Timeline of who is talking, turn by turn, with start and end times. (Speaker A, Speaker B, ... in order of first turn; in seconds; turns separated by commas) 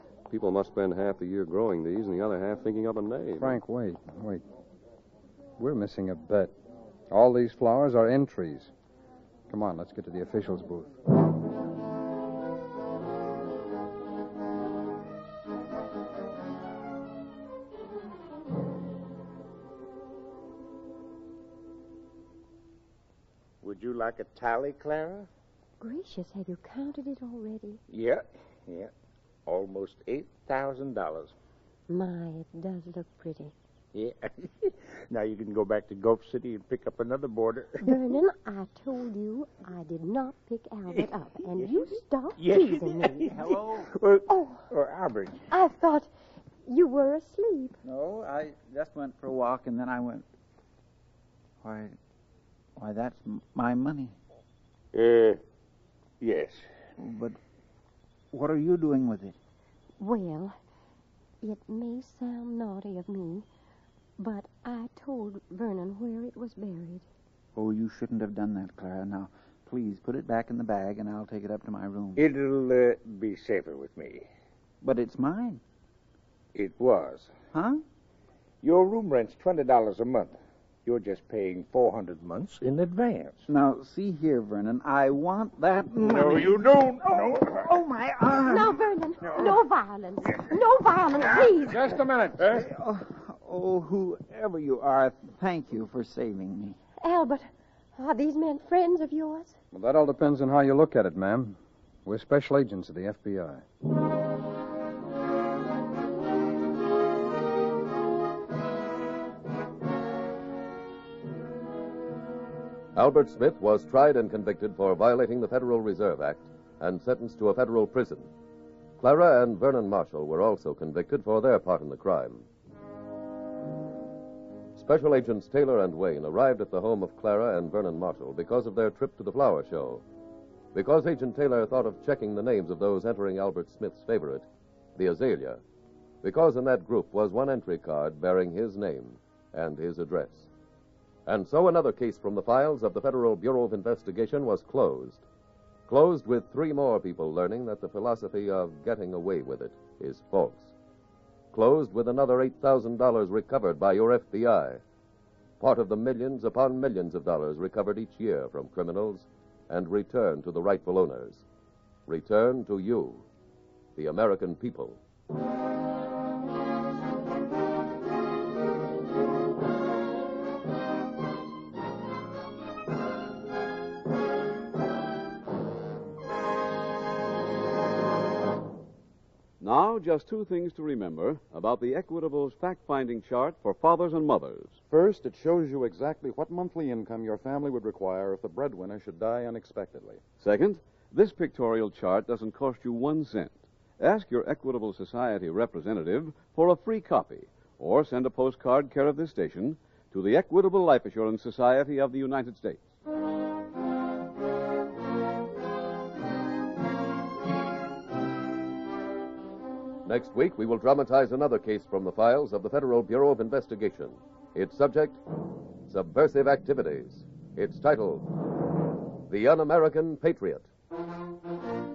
Speaker A: 0.3-3.6, Speaker B: 3.4-4.4, Speaker B: 5.6-6.5, Speaker B: 7.1-8.7, Speaker B: 9.5-11.0, Speaker C: 23.6-25.3, Speaker D: 25.8-27.8, Speaker C: 27.9-28.9, Speaker C: 29.5-31.3, Speaker D: 31.9-33.5, Speaker C: 33.9-38.0, Speaker D: 37.8-43.3, Speaker C: 42.4-45.4, Speaker E: 43.3-43.9, Speaker D: 44.3-44.6, Speaker D: 45.5-46.1, Speaker D: 46.7-47.8, Speaker E: 47.8-50.3, Speaker E: 51.6-52.0, Speaker E: 52.8-54.2, Speaker C: 54.9-55.4, Speaker C: 56.2-56.7, Speaker E: 57.0-57.4, Speaker E: 58.3-59.4, Speaker D: 60.0-60.6, Speaker D: 61.4-63.5, Speaker D: 64.2-67.1, Speaker E: 67.5-72.2, Speaker C: 72.2-74.3, Speaker E: 74.8-75.6, Speaker C: 76.5-77.3, Speaker E: 77.5-77.8, Speaker C: 78.6-83.5, Speaker E: 83.5-88.8, Speaker C: 86.0-87.7, Speaker D: 88.5-91.9, Speaker C: 91.3-92.7, Speaker E: 92.4-96.8, Speaker D: 97.0-99.6, Speaker B: 99.7-103.7, Speaker F: 113.0-118.3, Speaker F: 119.0-122.5, Speaker F: 124.8-130.0, Speaker F: 130.7-135.6, Speaker F: 136.2-140.5, Speaker F: 141.3-145.2, Speaker F: 145.9-150.7, Speaker F: 151.5-154.8, Speaker F: 155.6-161.4, Speaker F: 162.1-163.2, Speaker F: 164.0-165.0, Speaker G: 179.6-184.8, Speaker H: 184.9-190.2, Speaker G: 190.4-202.9, Speaker F: 210.1-215.2, Speaker F: 215.9-218.3, Speaker F: 219.3-220.7